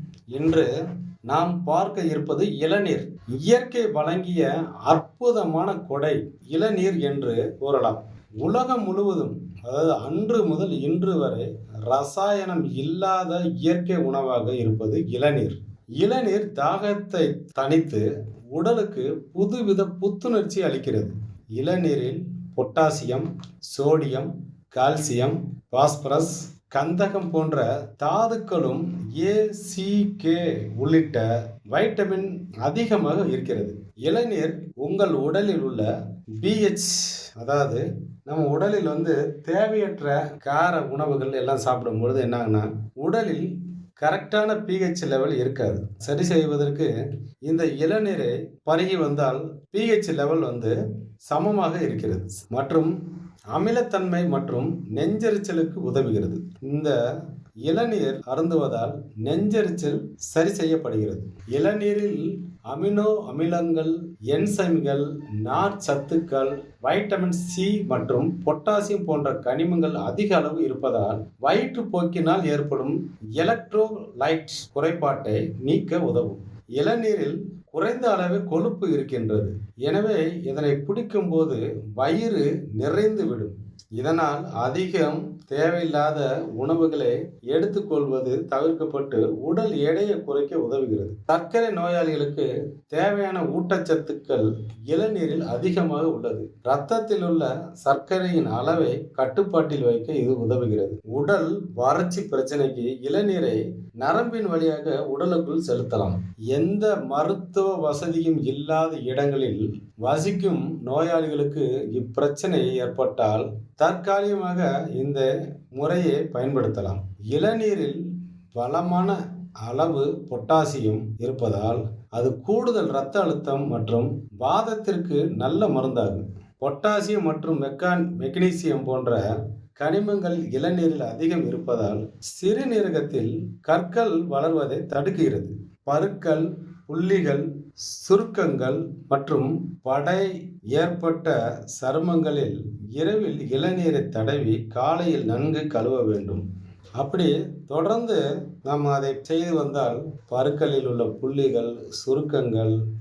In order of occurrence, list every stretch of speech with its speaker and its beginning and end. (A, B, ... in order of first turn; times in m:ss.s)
0:00.3-0:00.7 A
0:01.3-0:35.9 A
0:36.4-0:46.9 A
0:47.5-0:50.7 A
0:51.3-0:52.9 A
0:53.5-0:57.0 A
0:57.6-1:58.0 A
1:58.5-2:09.2 A
2:09.8-2:17.4 A
2:18.0-2:26.4 A
2:27.0-2:32.8 A